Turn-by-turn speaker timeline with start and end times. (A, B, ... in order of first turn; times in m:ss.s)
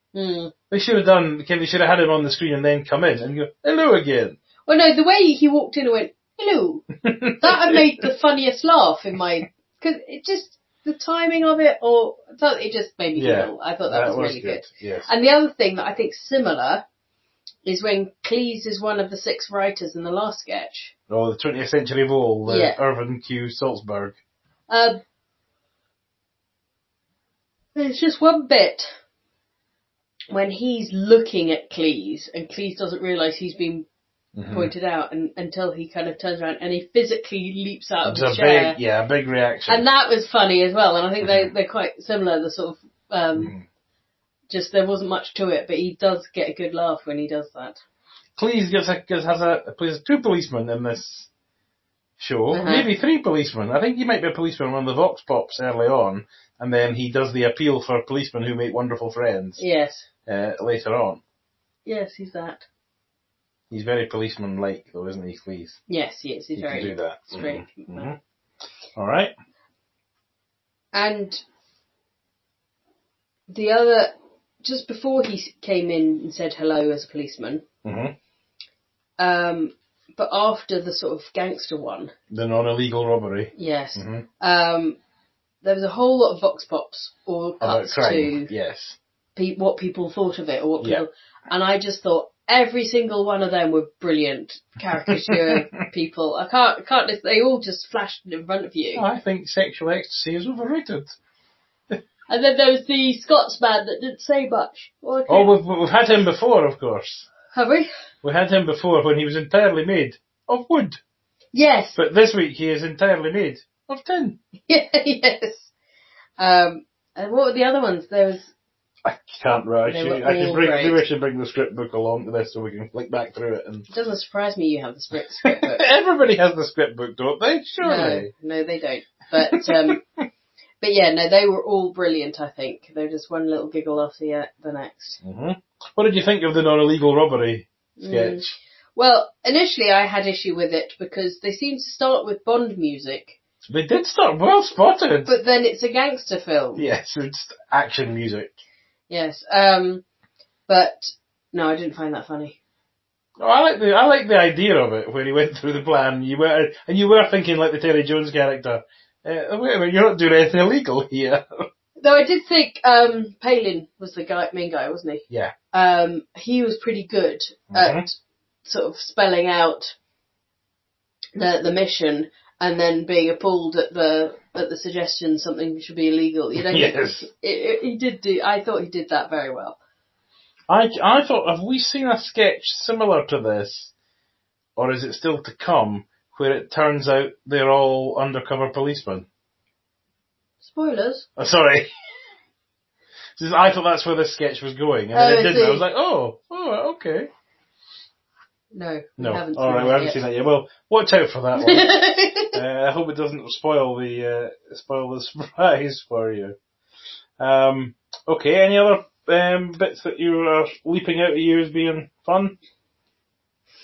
0:00.1-0:00.5 A
0:00.7-0:04.4 B
0:04.7-0:16.8 A
0:07.0-0:07.8 B
0:13.2-0:15.1 B
0:17.6-0:20.9 A
0:21.1-0:24.2 B
0:22.4-0:22.8 A
0:24.7-0:25.0 A
0:27.7-0:28.9 A
0:30.3-0:33.8 A
0:34.3-0:34.7 B
0:34.5-0:38.8 A
0:38.0-0:39.8 B
0:39.7-0:43.5 A
0:41.2-0:41.5 B
0:43.4-0:43.6 B
0:44.5-0:47.8 A
0:48.4-0:51.3 B
0:52.2-0:59.6 B
0:52.5-0:52.9 A
0:59.6-1:00.1 A
1:00.3-1:01.2 B
1:01.8-1:02.6 A
1:03.7-1:05.8 B
1:05.9-1:08.1 A
1:06.6-1:08.2 B
1:09.0-1:09.3 B
1:10.9-1:11.4 A
1:13.5-1:14.1 A
1:14.6-1:17.6 A
1:17.8-1:18.1 B
1:19.2-1:22.1 A
1:22.3-1:24.2 B
1:23.5-1:25.0 A
1:25.6-1:28.5 A
1:27.6-1:29.0 B
1:29.4-1:39.0 A
1:39.0-1:41.1 B
1:42.3-1:45.5 A
1:45.3-1:47.3 B
1:47.5-1:47.9 A
1:48.2-1:51.0 B
1:51.5-1:52.0 A
1:51.9-1:54.4 B
1:54.7-1:55.7 A
1:56.4-1:58.5 A
1:59.0-2:03.9 B
1:59.8-2:01.0 A
2:03.9-2:05.8 A
2:05.6-2:08.3 B
2:07.8-2:10.0 A
2:10.8-2:15.2 A
2:15.2-2:18.5 B
2:18.0-2:23.4 A
2:23.6-2:25.3 B
2:25.2-2:26.8 A
2:26.8-2:28.5 B
2:29.1-2:30.0 A
2:30.7-2:32.6 A
2:33.4-2:41.4 B
2:42.0-2:48.1 A
2:47.7-2:48.0 B
2:48.6-2:49.9 A
2:51.4-2:59.8 A
2:56.6-2:57.3 B
3:00.7-3:03.9 B
3:04.8-3:09.2 B
3:10.6-3:11.2 A
3:11.4-3:11.9 B
3:13.4-3:17.3 B
3:15.1-3:15.8 A
3:18.7-3:20.2 A
3:19.2-3:21.9 B
3:21.6-3:22.6 A
3:22.5-3:26.6 B
3:27.4-3:32.6 B